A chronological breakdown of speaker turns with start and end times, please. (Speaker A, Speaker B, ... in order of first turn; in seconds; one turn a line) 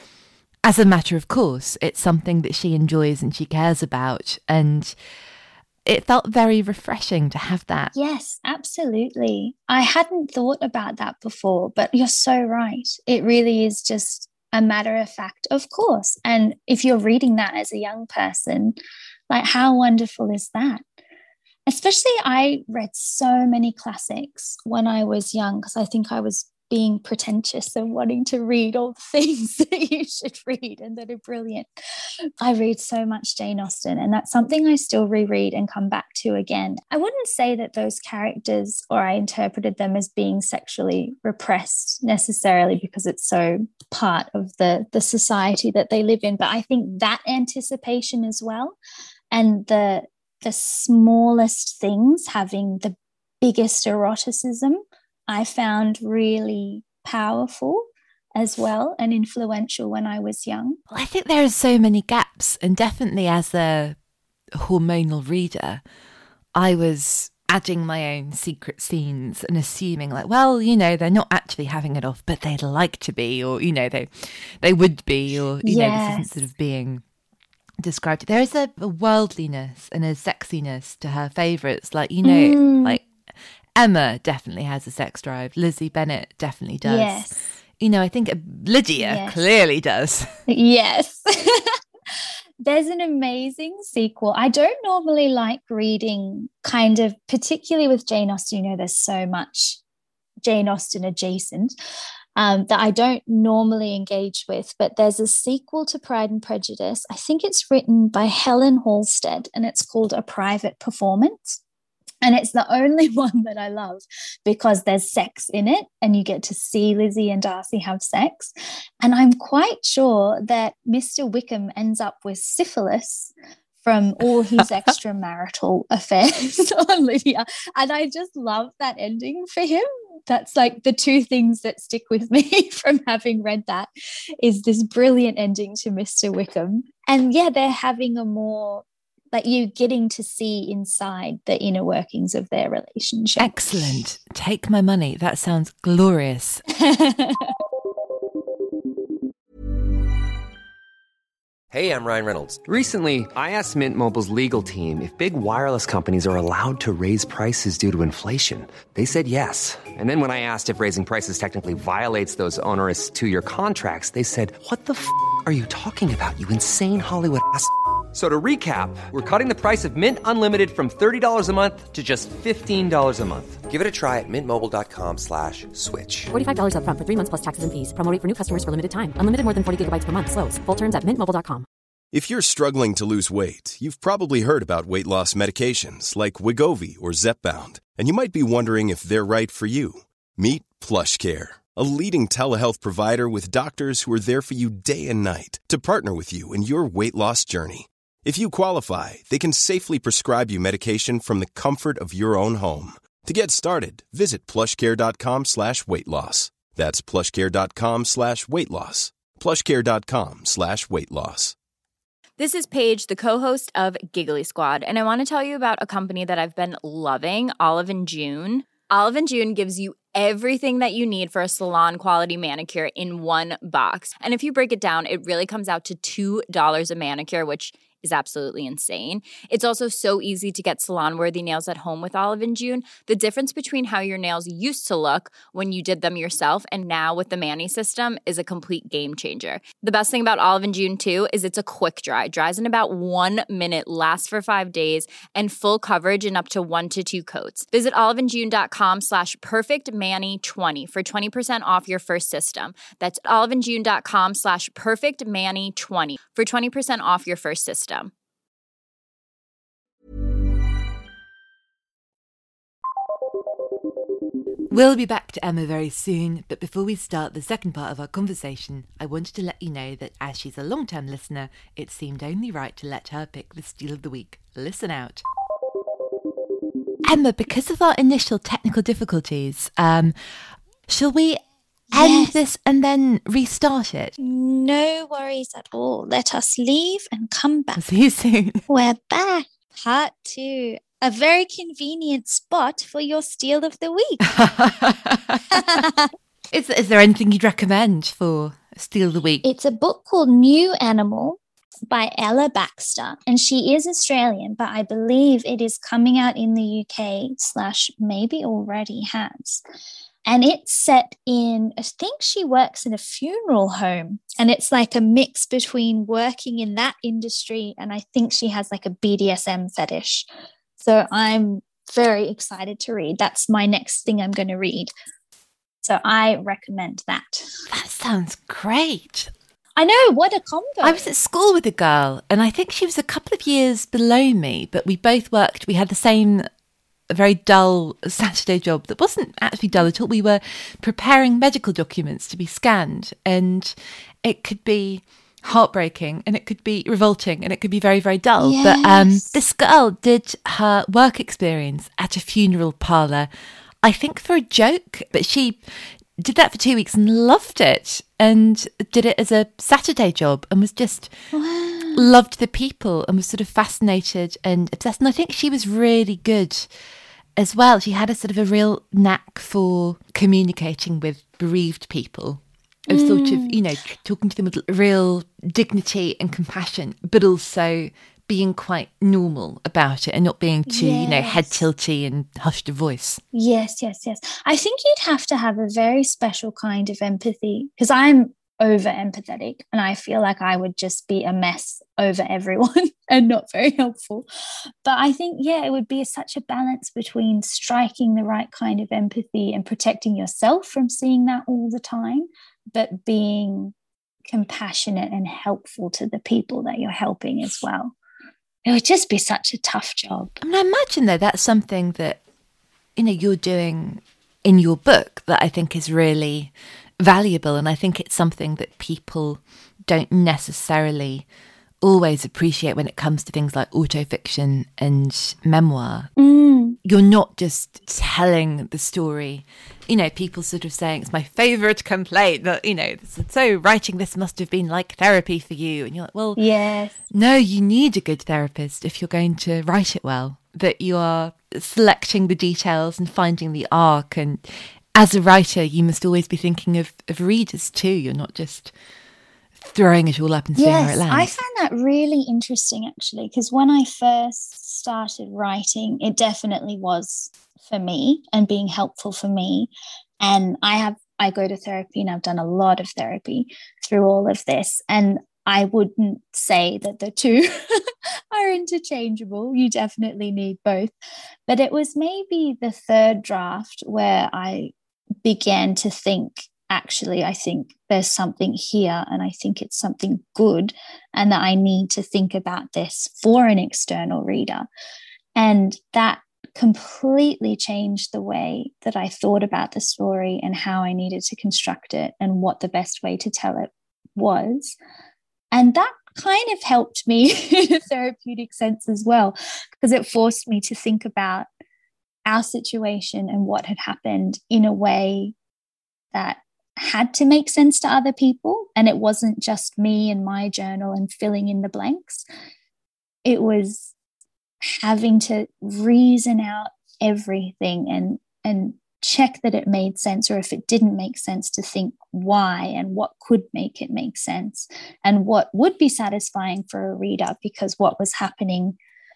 Speaker A: 0.7-5.0
Speaker A: 5.8-7.9
Speaker B: 8.0-18.8
Speaker B: 19.3-20.8
Speaker B: 21.7-31.7
Speaker B: 32.4-48.8
Speaker B: 49.3-57.8
Speaker B: 58.4-60.8
Speaker A: 60.9-64.0
Speaker A: 64.5-65.8
Speaker A: 66.5-77.0
Speaker B: 75.6-76.4
Speaker A: 77.8-83.0
Speaker B: 82.2-83.0
Speaker A: 83.8-87.3
Speaker B: 86.8-87.4
Speaker A: 87.8-90.3
Speaker B: 89.0-89.4
Speaker B: 90.5-91.8
Speaker B: 92.6-99.8
Speaker B: 100.4-101.7
Speaker B: 102.4-111.6
Speaker B: 112.2-133.9
Speaker B: 134.4-143.7
Speaker A: 143.4-146.6
Speaker B: 146.7-147.6
Speaker C: 151.7-176.3
Speaker D: 176.3-181.7
Speaker E: 182.1-211.6
Speaker F: 212.4-258.1
Speaker A: 264.7-275.2
Speaker A: 277.0-280.1
Speaker A: 280.9-284.1
Speaker B: 281.9-282.4
Speaker B: 284.2-287.8
Speaker A: 287.8-288.6
Speaker B: 288.7-294.4
Speaker A: 294.3-295.8
Speaker B: 295.5-296.1
Speaker A: 296.5-299.4
Speaker B: 299.4-301.4
Speaker B: 301.9-309.6
Speaker B: 310.3-320.3
Speaker B: 320.8-324.9
Speaker B: 325.8-327.5
Speaker A: 327.7-329.3
Speaker B: 329.8-331.1
Speaker A: 330.8-336.5
Speaker A: 337.1-353.3
Speaker B: 348.4-349.4
Speaker A: 353.8-355.6
Speaker A: 356.2-361.1
Speaker B: 361.3-362.1
Speaker A: 361.9-366.7
Speaker A: 367.4-383.2
Speaker B: 372.9-373.6
Speaker B: 380.7-381.6
Speaker B: 383.3-394.3
Speaker B: 394.9-403.7
Speaker B: 404.3-407.9
Speaker B: 408.7-410.3
Speaker A: 410.4-412.2
Speaker A: 413.0-421.3
Speaker A: 421.8-426.1
Speaker B: 426.2-426.8
Speaker A: 426.9-436.4
Speaker B: 436.4-437.0
Speaker A: 437.1-444.4
Speaker A: 444.9-448.7
Speaker A: 449.6-451.4
Speaker B: 450.6-470.9
Speaker B: 471.5-474.7
Speaker B: 475.2-484.7
Speaker B: 485.4-494.8
Speaker B: 495.5-501.5
Speaker B: 502.3-505.3
Speaker B: 506.1-512.2
Speaker B: 513.2-513.9
Speaker B: 514.6-528.8